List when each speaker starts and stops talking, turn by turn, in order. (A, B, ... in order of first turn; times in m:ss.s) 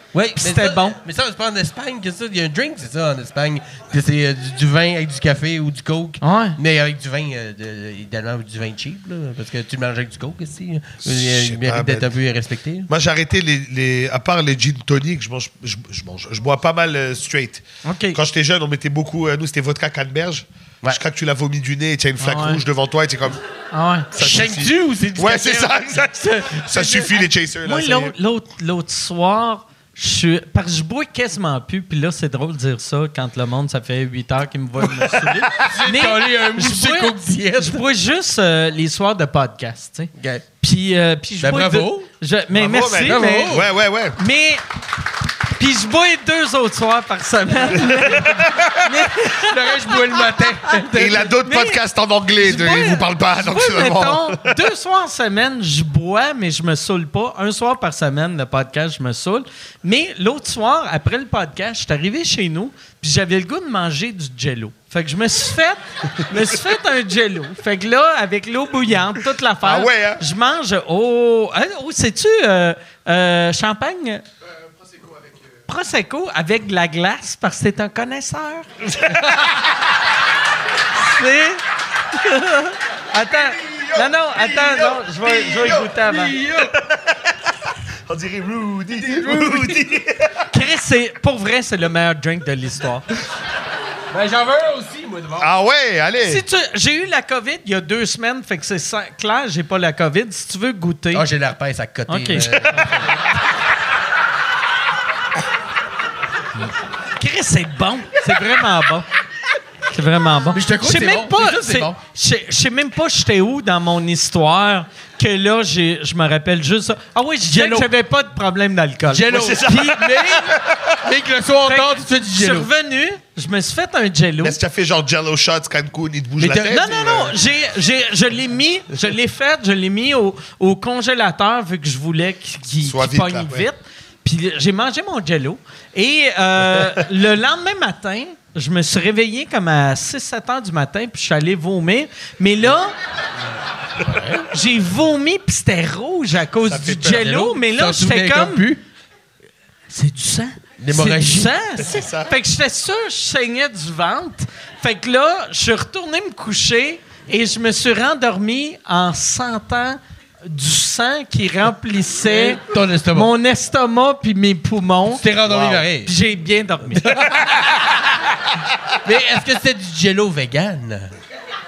0:00.1-0:12.9 A
0:00.4-0:01.0 B
0:06.2-0:06.6 B
0:11.0-0:12.1 C
0:12.9-0:23.4 C
0:17.8-0:18.2 B
0:22.2-0:22.6 B
0:23.7-0:24.1 B
0:24.1-0:28.1 C
0:24.2-0:27.2 A
0:27.6-0:43.6 B
0:35.0-0:35.7 C
0:35.5-0:37.8 A
0:40.1-0:40.4 A
0:41.4-0:42.1 A
0:42.5-0:44.2 C
0:43.0-0:43.7 A
0:44.2-0:44.6 B
0:45.6-0:51.8 B
0:48.0-0:48.7 C
0:49.2-0:51.3 A
0:50.9-0:54.6 C
0:52.3-1:14.2 B
1:09.6-1:10.2 C
1:15.7-1:19.3 B
1:20.9-1:26.3 B
1:23.2-1:25.9 C
1:25.6-1:26.7 A
1:26.8-1:27.1 C
1:28.1-1:30.4 C
1:29.0-1:29.8 A
1:30.5-1:33.1 B
1:34.1-1:35.5 A
1:35.4-1:36.4 C
1:36.2-1:41.2 B
1:41.1-1:43.1 A
1:42.1-1:42.9 B
1:47.2-1:49.0 B
1:49.9-1:59.7 B
1:50.5-1:52.0 A
1:57.4-1:57.9 A
1:59.1-2:02.7 A
1:59.3-2:01.0 C
2:01.6-2:04.6 B
2:04.4-2:07.4 C
2:06.4-2:07.3 A
2:06.6-2:22.9 B
2:12.8-2:13.6 C
2:24.0-2:24.4 A
2:24.5-2:28.7 B
2:26.6-2:27.2 C
2:27.0-2:28.8 A
2:29.9-2:42.6 B
2:30.8-2:31.5 A
2:31.8-2:32.3 C
2:42.2-2:43.3 A
2:43.1-2:45.2 B
2:45.1-2:46.1 A
2:45.4-2:45.8 C
2:46.0-2:47.2 B
2:46.9-2:47.9 A
2:49.0-2:51.1 A